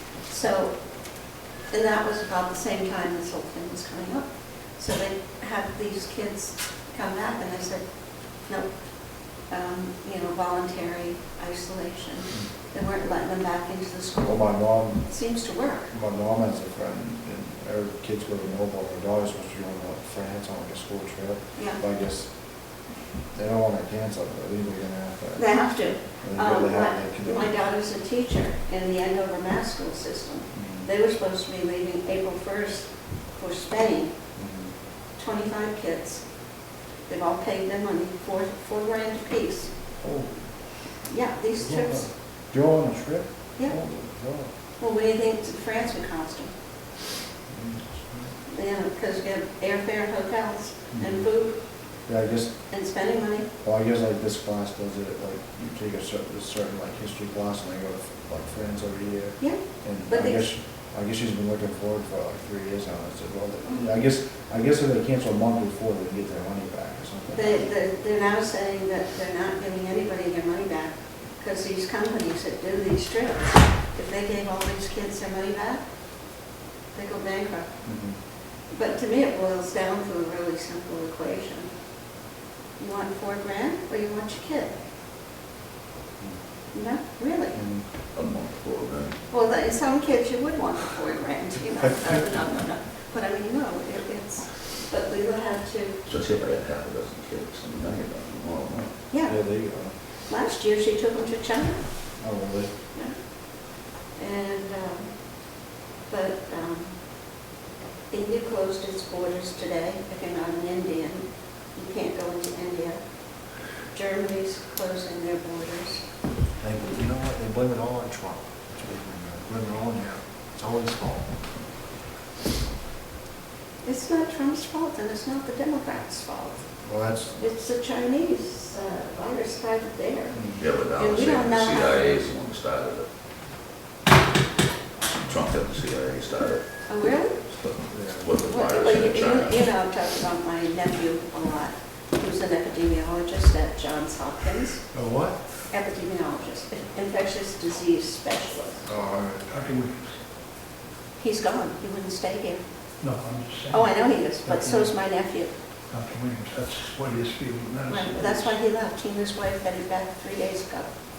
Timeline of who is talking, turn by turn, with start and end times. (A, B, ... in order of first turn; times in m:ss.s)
0:00.2-0:00.8 A
0:01.7-0:07.8 A
0:09.4-0:15.9 A
0:14.2-0:15.0 B
0:15.9-0:22.3 B
0:23.3-0:25.5 B
0:25.4-0:34.1 A
0:26.2-0:27.5 B
0:30.5-0:30.9 B
0:34.4-0:34.7 B
0:35.2-0:36.2 A
0:37.1-0:39.7 A
0:40.0-0:40.3 B
0:41.1-0:42.1 A
0:41.6-0:44.5 B
0:44.8-0:46.5 A
0:47.5-0:48.3 B
0:48.5-0:51.6 A
0:50.9-0:51.3 B
0:52.1-0:52.5 B
0:52.7-0:53.5 A
0:53.6-1:07.6 B
0:59.4-1:00.5 A
1:07.3-1:15.8 A
1:16.9-1:17.7 A
1:17.8-1:18.2 B
1:18.7-1:21.7 A
1:22.8-1:24.8 A
1:26.7-1:27.6 A
1:27.5-1:27.8 B
1:28.1-1:29.2 C
1:29.3-1:36.0 A
1:36.0-1:38.9 C
1:39.1-1:39.4 A
1:39.2-1:39.9 B
1:40.3-1:41.8 A
1:42.2-1:42.7 B
1:44.2-1:45.1 A
1:46.1-1:46.9 A
1:48.1-1:53.0 A
1:53.9-1:56.0 A
1:56.6-2:01.3 B
2:03.8-2:06.6 A
2:06.8-2:07.4 B
2:07.4-2:10.4 A
2:10.3-2:10.6 B
2:10.6-2:13.1 C
2:10.9-2:12.3 A
2:15.1-2:16.6 C
2:16.9-2:17.4 A
2:17.4-2:19.6 C
2:17.9-2:18.3 B
2:18.4-2:24.8 A
2:24.9-2:25.4 B
2:25.7-2:28.8 A
2:28.8-2:29.4 B
2:29.4-2:30.1 D
2:31.2-2:32.6 A
2:33.0-2:34.9 D
2:33.7-2:35.5 A
2:35.9-2:38.5 D
2:37.9-2:40.9 A